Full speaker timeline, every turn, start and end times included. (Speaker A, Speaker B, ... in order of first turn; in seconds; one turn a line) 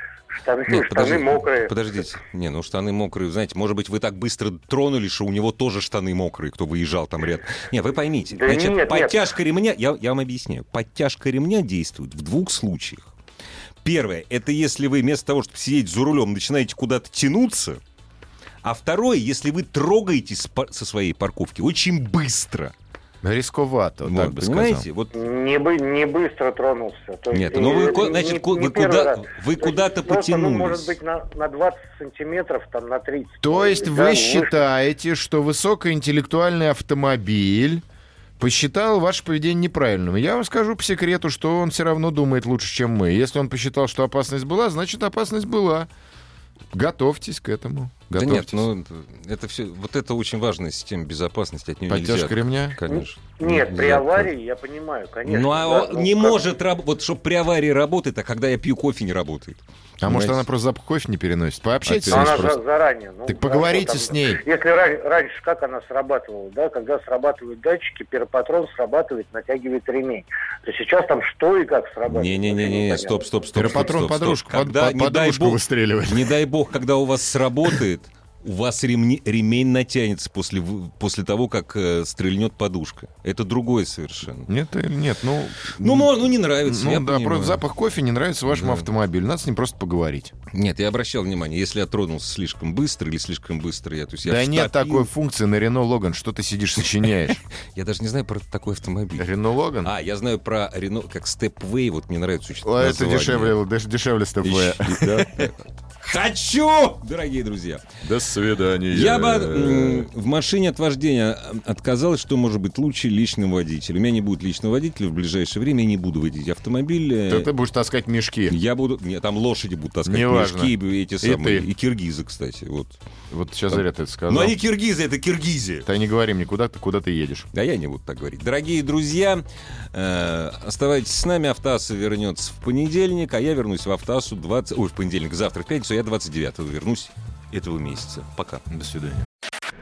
Speaker A: 0.3-1.7
Speaker B: 0.7-13.1
Speaker A: 8.3-9.2
Speaker B: 13.8-17.8
Speaker B: 18.6-22.7
Speaker C: 23.2-24.9
Speaker B: 24.0-25.1
Speaker A: 25.1-34.5
Speaker B: 27.3-30.9
Speaker C: 33.4-37.8
Speaker C: 38.4-45.9
Speaker C: 46.7-48.7
Speaker B: 48.1-54.3
Speaker C: 51.9-52.9
Speaker A: 52.9-56.4
Speaker B: 55.2-60.4
Speaker C: 60.0-62.6
Speaker B: 61.9-62.5
Speaker A: 62.1-73.2
Speaker C: 63.3-64.4
Speaker B: 72.1-84.5
Speaker C: 73.5-76.3
Speaker C: 84.5-90.3
Speaker B: 85.7-87.6
Speaker B: 88.5-88.8
Speaker B: 90.5-95.1
Speaker C: 94.2-97.4
Speaker B: 97.3-99.3
Speaker C: 99.2-99.9
Speaker B: 99.8-103.5
Speaker C: 102.6-105.5
Speaker B: 104.4-107.8
Speaker C: 108.0-110.1
Speaker B: 108.9-117.5
Speaker C: 117.3-118.5
Speaker B: 118.5-123.0
Speaker C: 120.0-121.7
Speaker C: 123.3-124.5
Speaker B: 123.7-125.9
Speaker C: 125.8-127.5
Speaker B: 127.5-138.6
Speaker C: 138.7-139.2